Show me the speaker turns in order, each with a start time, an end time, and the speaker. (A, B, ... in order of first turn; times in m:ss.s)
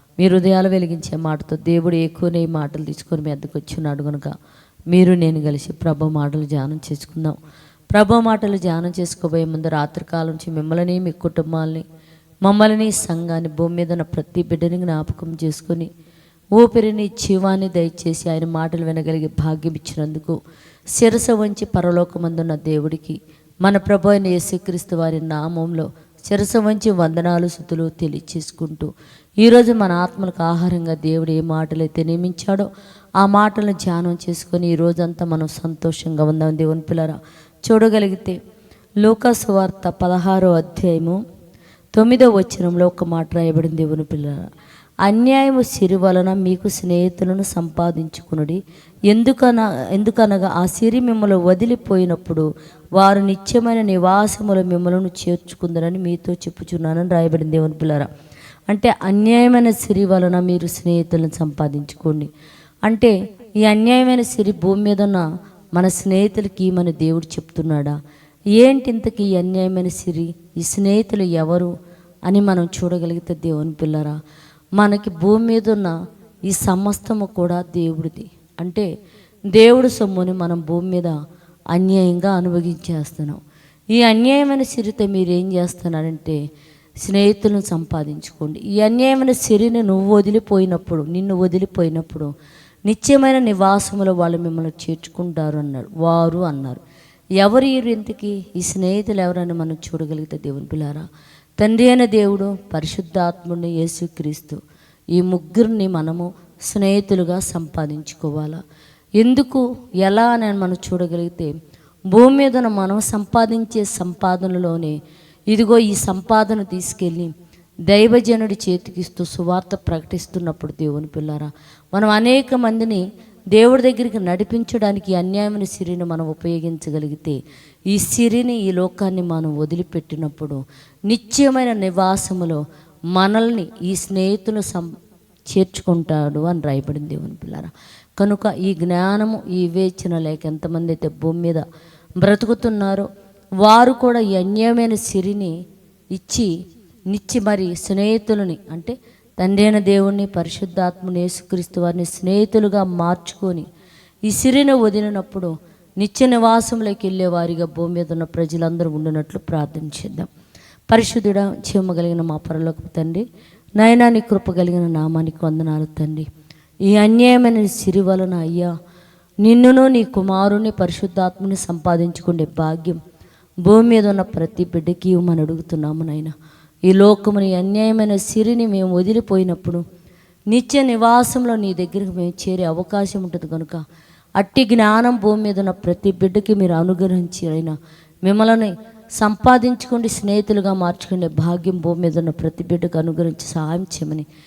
0:00.2-0:04.3 A
0:04.9-0:07.4 A
0:07.9-0:11.8 A
0:12.5-0:15.9 A
0:16.6-0:20.4 A
0:21.0-0:28.9 A
0:29.4-0:32.7 A
0:33.2-0:38.4 A
0:39.0-0:41.2 A
0:42.0-0:44.4 A
0:45.1-0:48.6 A
0:49.1-0:58.1 A
0:58.7-1:02.3 A
1:02.9-1:05.2 A
1:05.8-1:07.9 A
1:08.6-1:11.7 A
1:12.3-1:14.2 A
1:14.8-1:15.9 A
1:16.5-1:18.9 A
1:19.6-1:21.1 A
1:21.7-1:23.4 A
1:24.0-1:26.4 A
1:27.0-1:32.3 A
1:32.9-1:36.8 A
1:37.4-1:41.1 A
1:41.6-1:44.6 A
1:45.2-1:48.6 A
1:49.2-1:51.5 A
1:52.1-1:55.0 A
1:55.5-1:57.3 A
1:57.9-2:03.0 A
2:03.6-2:07.4 A
2:07.9-2:12.6 A
2:13.2-2:14.9 A
2:15.5-2:21.6 A
2:22.2-2:23.1 A
2:23.6-2:25.5 A
2:26.2-2:26.5 A
2:27.1-2:33.7 A
2:34.3-2:40.3 A
2:40.9-2:43.2 A
2:43.8-2:46.3 A
2:46.9-2:48.7 A
2:49.4-2:53.0 A
2:53.7-2:56.3 A
2:56.9-2:59.8 A
3:00.5-3:03.8 A
3:04.4-3:14.3 A